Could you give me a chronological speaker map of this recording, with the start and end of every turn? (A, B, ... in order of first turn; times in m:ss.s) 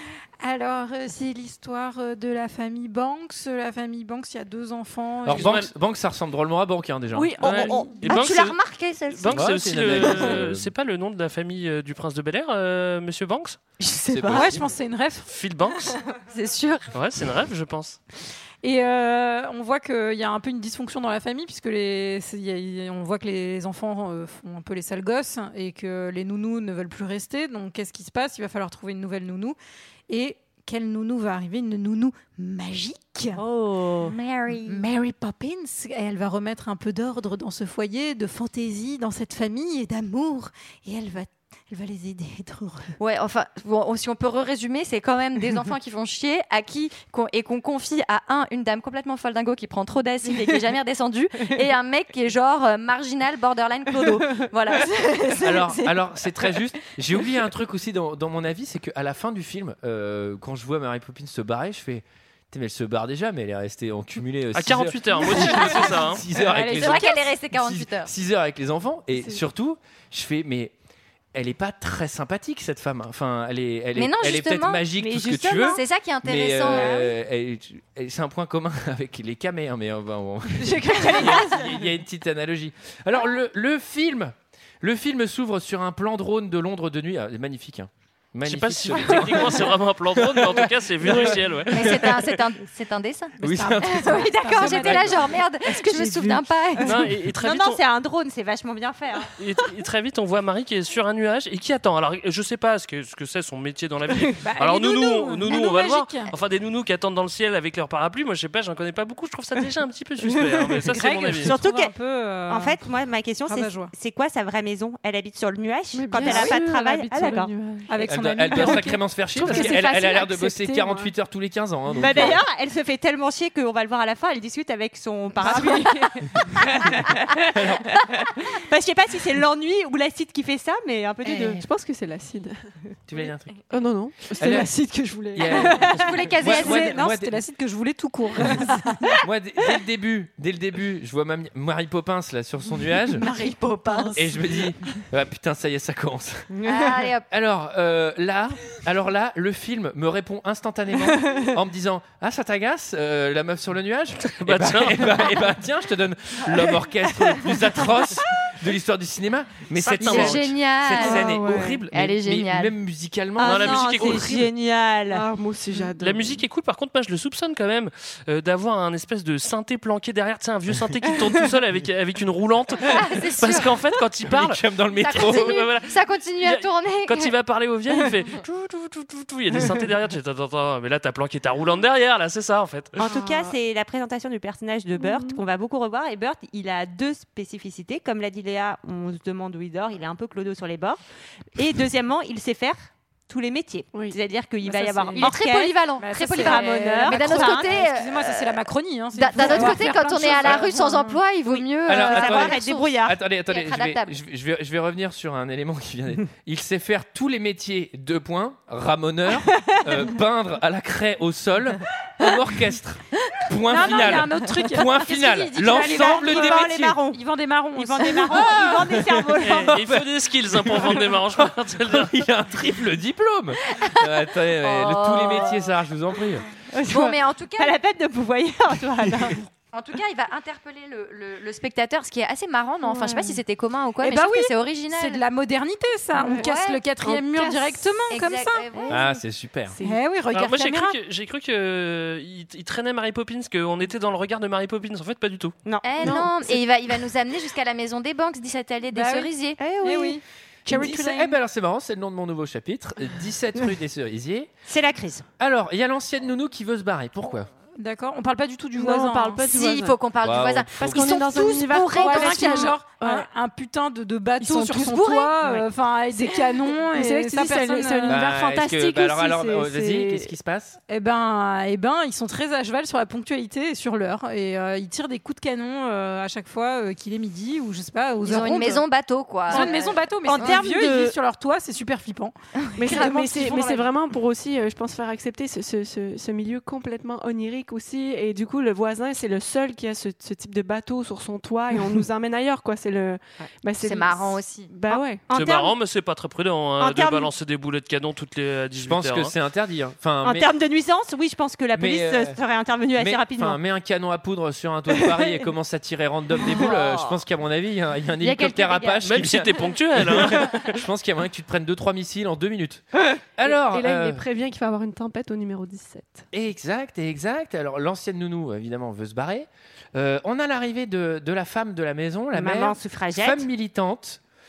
0:00.4-0:05.7 A
0:05.2-0:07.4 B
0:05.3-0:05.7 C
0:07.2-0:08.1 D
0:07.4-0:13.6 C
0:07.6-0:10.4 E
0:07.6-0:08.0 A
0:09.3-0:10.7 B
0:13.8-0:14.6 E
0:14.1-0:14.6 B
0:14.3-0:15.3 A
0:15.3-0:16.0 C
0:16.3-0:16.9 E
0:16.9-0:18.0 C
0:18.6-0:29.6 A
0:30.1-0:33.4 A
0:33.4-0:34.2 F
0:34.0-0:34.8 E
0:34.6-0:42.9 A
0:43.0-0:56.6 E
0:55.4-1:10.7 B
1:04.6-1:06.2 C
1:05.3-1:07.3 A
1:06.7-1:08.1 E
1:09.1-1:09.4 D
1:11.3-1:32.2 B
1:14.0-1:14.9 E
1:15.0-1:15.8 F
1:15.6-1:17.0 E
1:16.7-1:17.1 F
1:20.7-1:21.6 D
1:28.4-1:32.2 C
1:31.7-1:37.1 E
1:33.4-1:35.1 B
1:33.4-1:35.5 A
1:35.7-1:36.4 D
1:36.8-1:37.8 C
1:37.3-1:39.3 F
1:39.4-1:51.6 C
1:44.4-1:46.3 A
1:50.4-1:52.9 A
1:51.4-1:52.0 F
1:52.5-1:57.5 F
1:53.5-1:53.9 A
1:55.9-1:57.9 D
1:56.2-1:56.5 A
1:57.9-2:01.0 A
1:58.0-2:02.4 B
1:58.6-1:58.8 D
1:59.4-1:59.8 D
2:02.0-2:11.6 F
2:05.4-2:05.9 D
2:05.5-2:05.8 A
2:07.5-2:07.9 B
2:11.2-2:12.6 D
2:13.1-2:13.6 B
2:13.2-2:15.8 D
2:14.4-2:14.7 B
2:15.3-2:17.4 B
2:15.6-2:19.2 A
2:15.8-2:16.9 E
2:19.2-2:23.2 B
2:23.2-2:24.3 A
2:23.3-2:24.1 E
2:24.2-2:26.5 B
2:26.6-2:27.2 E
2:27.3-2:44.5 B
2:34.2-2:35.4 C
2:39.8-2:40.6 C
2:40.0-2:42.8 E
2:40.9-2:41.8 D
2:43.4-2:45.2 F
2:43.4-2:44.4 C
2:45.1-2:46.4 D
2:46.0-2:54.6 C
2:52.9-2:53.7 E
2:54.2-2:55.6 B
2:55.0-2:57.3 E
2:55.2-3:03.0 C
3:03.0-3:11.0 F
3:03.0-3:03.6 D
3:05.0-3:05.4 D
3:11.6-3:17.9 F
3:13.9-3:14.2 D
3:14.6-3:15.3 A
3:15.2-3:18.3 E
3:16.0-3:21.7 A
3:19.2-3:24.2 E
3:21.9-3:37.0 B
3:21.9-3:23.2 F
3:33.6-3:39.1 A
3:35.8-3:37.2 F
3:37.8-3:39.8 F
3:38.9-3:46.5 B
3:39.4-3:42.3 C
3:43.8-3:45.7 E
3:46.7-3:49.4 F
3:46.8-3:47.8 E
3:49.7-3:55.2 E
3:54.0-3:58.7 A
3:56.2-3:59.1 E
3:57.0-3:57.5 D
3:58.9-3:59.8 B
3:59.7-4:00.0 D
3:59.8-4:01.0 A
4:00.3-4:05.6 C
4:05.6-4:06.2 F
4:05.8-4:09.6 E
4:06.0-4:06.6 D
4:08.9-4:11.4 A
4:09.6-4:10.2 F
4:10.7-4:14.5 B
4:14.7-4:15.3 F
4:15.4-4:17.5 B
4:17.8-4:19.5 A
4:18.8-4:20.0 D
4:19.4-4:22.8 E
4:20.2-4:21.0 B
4:20.8-4:23.3 D
4:21.9-4:28.2 A
4:24.4-4:25.2 D
4:24.7-4:25.3 E
4:26.8-4:30.3 D
4:28.1-4:30.8 B
4:30.9-4:38.8 A
4:38.2-4:40.6 E
4:39.5-4:43.9 A
4:39.5-4:41.2 F
4:42.6-4:43.1 E
4:42.8-4:55.3 D
4:53.8-4:54.7 E
4:54.9-4:55.8 F
4:55.3-4:59.3 C
4:56.8-4:57.3 F
4:58.8-5:00.5 B
5:00.2-5:03.6 F
5:01.8-5:02.4 B
5:03.0-5:14.2 B
5:08.2-5:09.1 E
5:09.0-5:10.8 C
5:13.1-5:16.2 D
5:16.3-5:24.2 B
5:22.3-5:23.5 F